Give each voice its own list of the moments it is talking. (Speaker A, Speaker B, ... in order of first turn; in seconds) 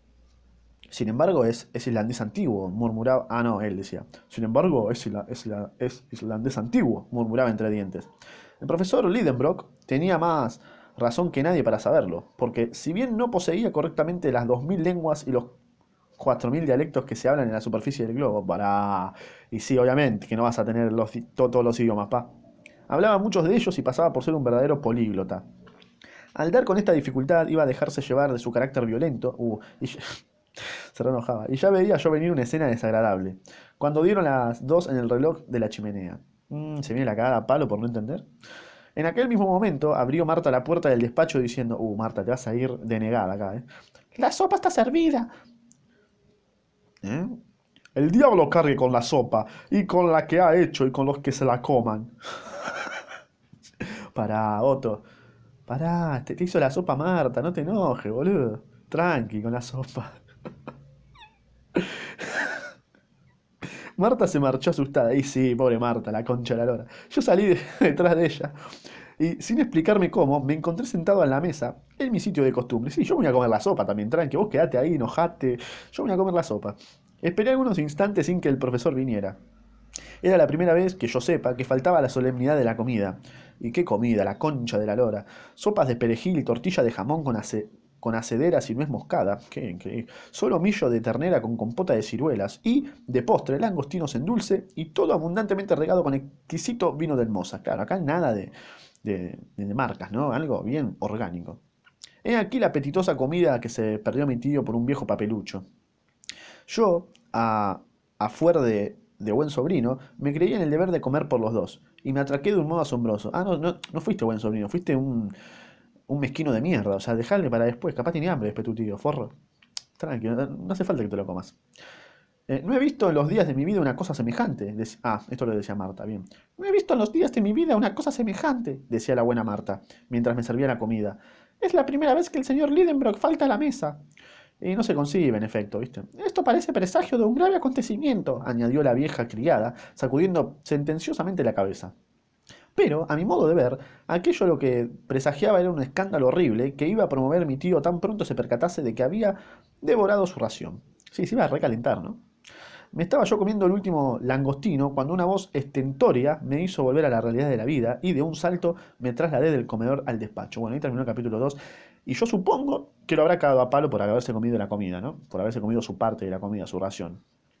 Speaker A: 0.9-8.1, 8.6-15.6, 16.2-22.3, 22.9-25.4, 26.3-38.2, 39.0-45.3, 47.0-47.4, 47.9-53.0, 53.8-55.1, 55.7-60.2, 61.7-62.6, 64.0-68.5, 69.2-79.4, 80.2-101.6, 102.2-105.7, 106.7-115.3, 116.1-119.3, 120.0-121.6, 122.5-134.0, 134.6-141.9, 142.7-152.2, 152.9-167.2